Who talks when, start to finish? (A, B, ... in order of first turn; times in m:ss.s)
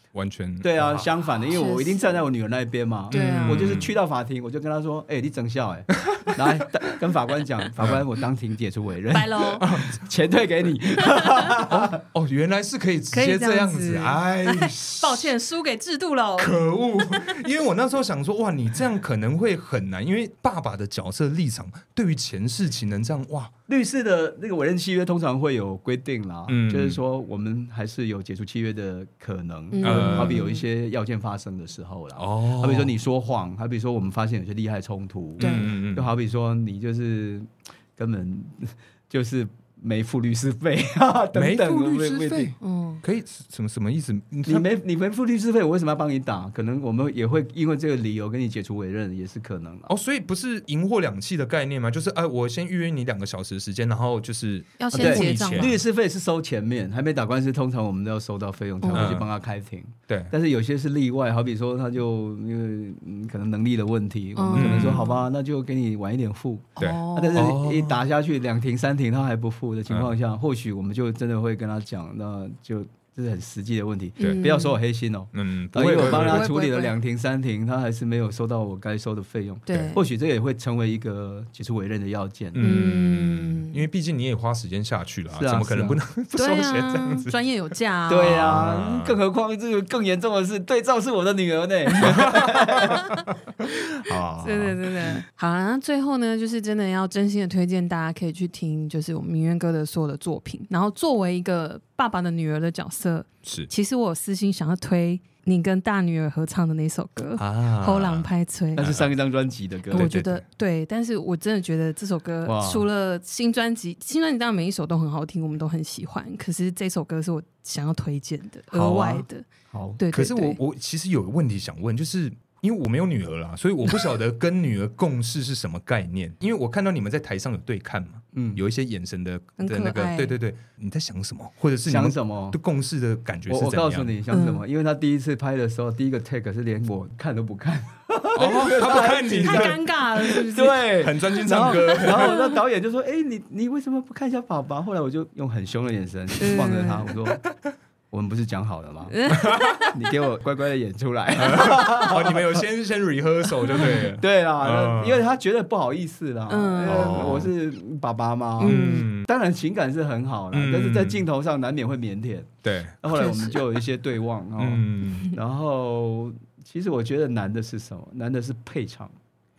0:00.1-0:01.1 A
0:00.6-0:12.0 B
0:01.5-0:02.1 C
0:03.1-0:03.9 A
0:03.1-0:03.8 C
0:06.1-0:06.4 A
0:09.1-0:09.7 C
0:09.6-0:10.0 A
0:11.0-0:11.5 C
0:11.6-0:15.3 A
0:13.1-0:16.5 C
0:16.4-0:23.5 A
0:23.7-0:42.5 B
0:26.5-0:27.0 A
0:29.7-0:30.6 C
0:29.8-0:30.4 A
0:32.2-0:32.9 A
0:35.4-0:36.1 A
0:35.4-0:35.7 C
0:41.3-0:44.7 A
0:42.6-0:43.0 C
0:44.4-0:49.9 B
0:49.9-0:55.8 A
0:54.8-0:55.7 C
0:54.9-1:22.7 B
0:58.8-0:59.2 C
0:58.9-0:59.3 A
1:00.1-1:00.3 A
1:04.4-1:05.3 C
1:04.5-1:05.0 A
1:06.8-1:07.5 C
1:06.8-1:08.0 A
1:09.9-1:10.1 A
1:14.2-1:14.8 C
1:15.3-1:16.5 A
1:15.8-1:16.9 C
1:19.7-1:20.0 C
1:19.7-1:20.0 A
1:22.5-1:27.3 A
1:22.6-1:23.8 C
1:25.3-1:26.0 B
1:26.4-1:28.6 C
1:28.1-1:33.0 B
1:28.3-1:29.1 A
1:32.0-1:35.2 A
1:34.4-1:48.8 C
1:43.4-1:43.7 A
1:47.4-1:49.1 A
1:48.8-1:50.1 B
1:49.9-1:59.4 C
1:49.9-1:50.4 A
1:52.4-1:52.8 B
1:58.7-2:00.0 B
2:00.0-2:00.6 C
2:00.1-2:14.2 A
2:08.3-2:08.6 B
2:09.6-2:10.3 C
2:11.8-2:12.6 B
2:13.5-2:27.4 B
2:14.3-2:14.6 C
2:18.3-2:19.8 A
2:18.8-2:22.6 C
2:20.9-2:22.3 A
2:26.4-2:27.2 C
2:28.1-2:29.3 B
2:29.1-2:30.0 C
2:29.3-2:29.8 A
2:29.9-2:32.6 B
2:31.4-2:35.2 A
2:33.7-2:49.2 B
2:36.5-2:37.4 C
2:36.8-2:37.5 A
2:38.6-2:39.1 C
2:38.6-2:39.3 A
2:40.5-2:41.2 A
2:42.6-2:43.0 A
2:43.2-2:43.6 C
2:44.6-2:45.3 A